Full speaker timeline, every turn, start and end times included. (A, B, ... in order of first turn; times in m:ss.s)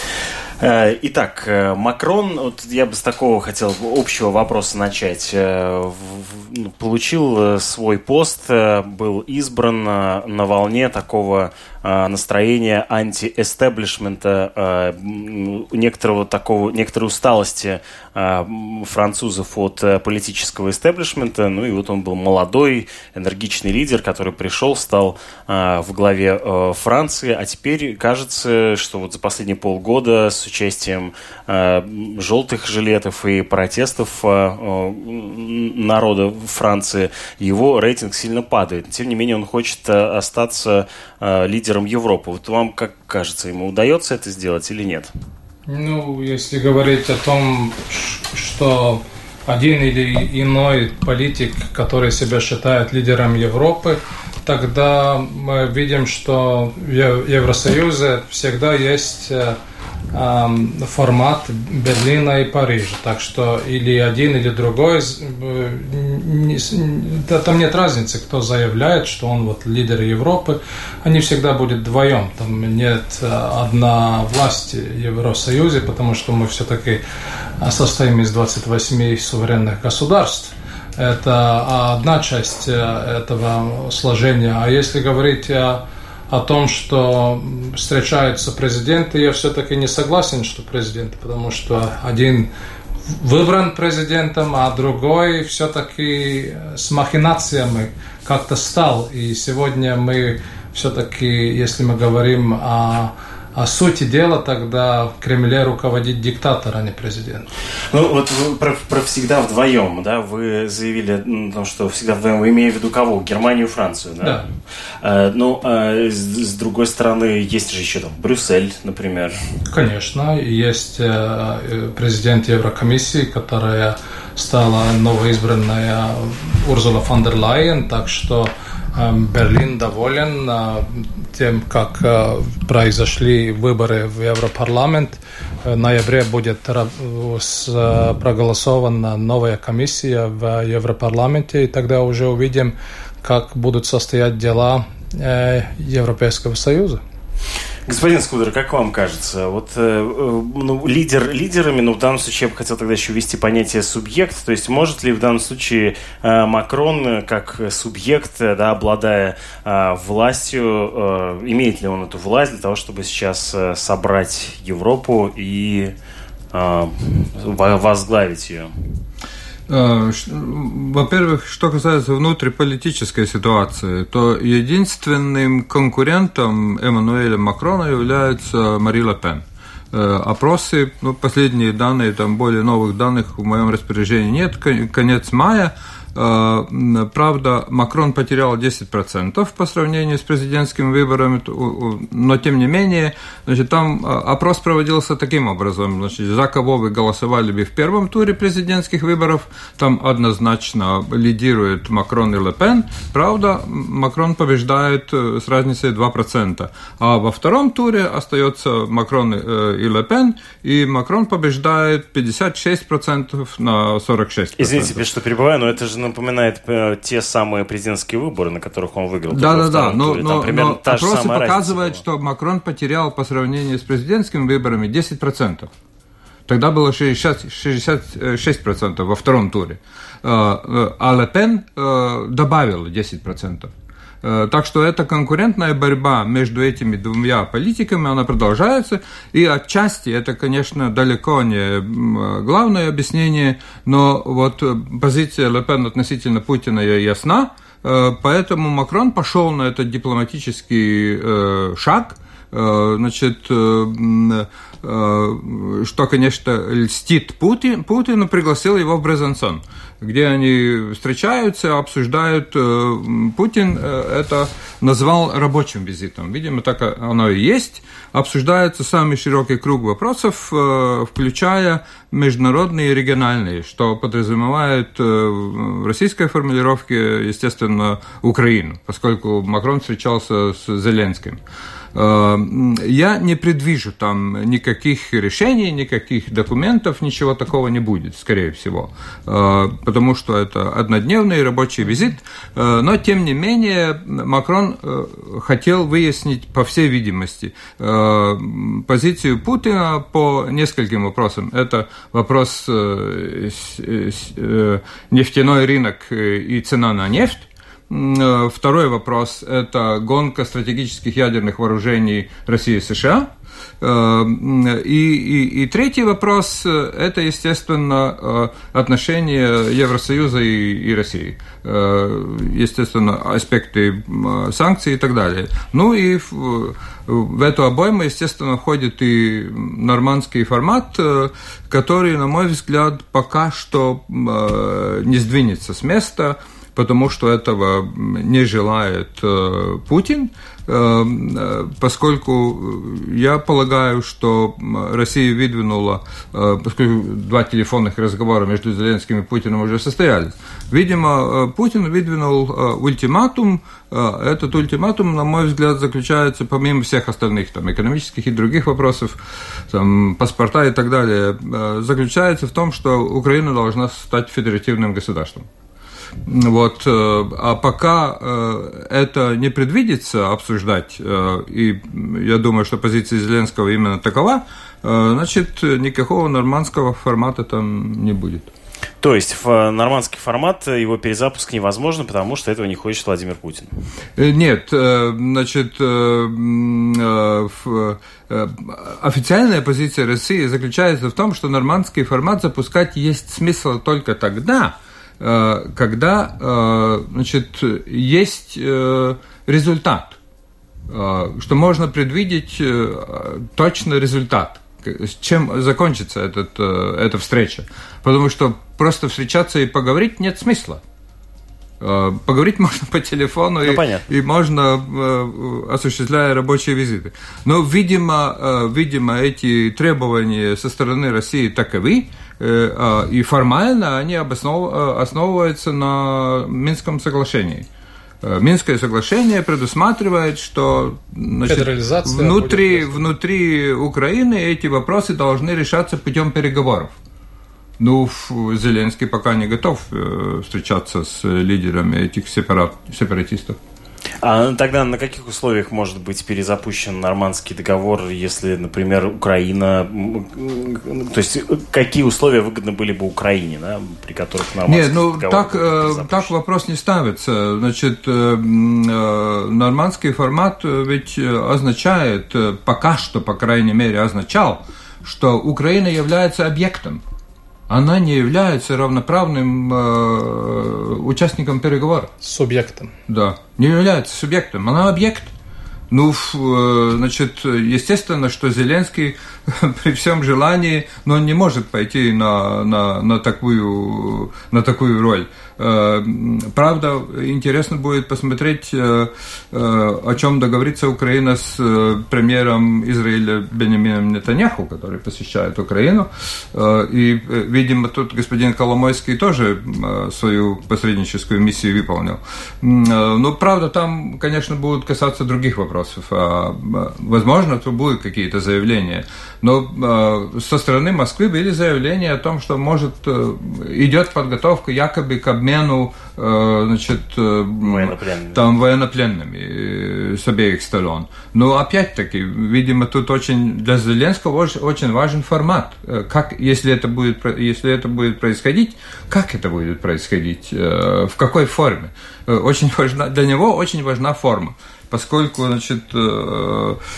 0:00.6-0:45.1 A
0:45.7-0:59.6 B
1:00.1-1:17.0 B
1:17.6-1:32.5 B
1:33.1-1:47.5 B
1:47.9-1:54.4 A
1:55.0-1:59.4 A
1:59.7-2:27.0 B
2:27.8-2:45.9 A
2:46.5-2:48.7 A
2:49.7-3:35.0 C
3:34.6-3:42.0 A
3:39.3-3:45.7 C
3:46.5-4:41.4 C
4:41.9-6:05.4 C
6:06.2-6:18.5 C
6:19.0-6:23.7 A
6:24.2-6:40.2 C
6:40.9-6:50.8 C
6:51.8-7:07.6 C
6:53.6-6:54.0 A
7:08.2-7:16.9 C
7:11.4-7:13.0 B
7:17.8-7:23.6 C
7:24.2-7:36.3 A
7:34.7-7:47.0 C
7:47.7-7:52.1 C
7:52.2-7:52.9 B
7:53.1-7:55.3 C
7:55.9-8:56.8 C
8:37.6-8:38.4 A